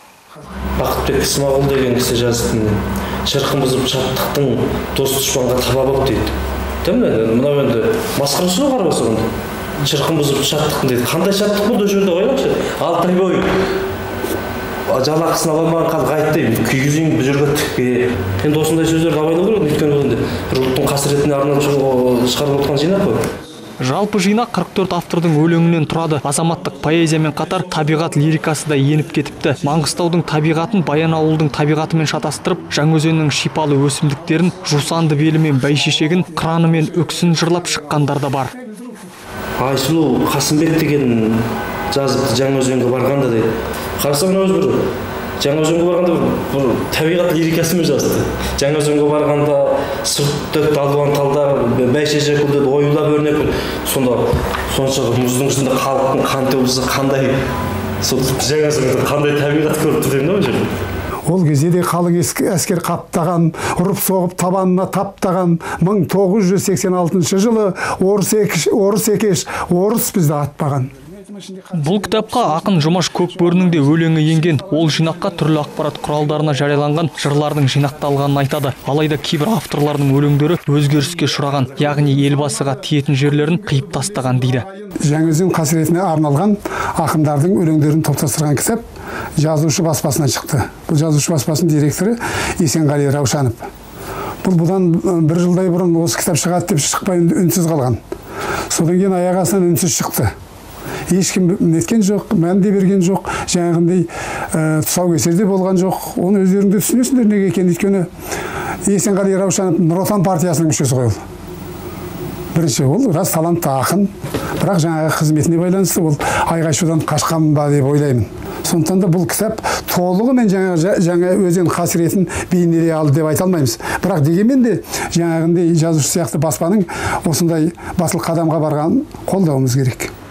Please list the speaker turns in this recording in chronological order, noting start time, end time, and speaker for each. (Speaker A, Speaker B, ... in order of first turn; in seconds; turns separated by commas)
Speaker A: 0.8-13.6, Speaker A: 14.9-23.3, Speaker B: 23.8-38.5, Speaker C: 37.3-37.6, Speaker C: 38.6-39.0, Speaker A: 39.6-57.4, Speaker A: 58.0-60.7, Speaker C: 61.3-72.6, Speaker B: 71.7-84.7, Speaker C: 84.9-88.8, Speaker C: 89.4-93.7, Speaker C: 94.4-98.0, Speaker C: 98.7-100.3, Speaker C: 101.1-108.1, Speaker C: 108.8-111.2, Speaker C: 112.5-130.1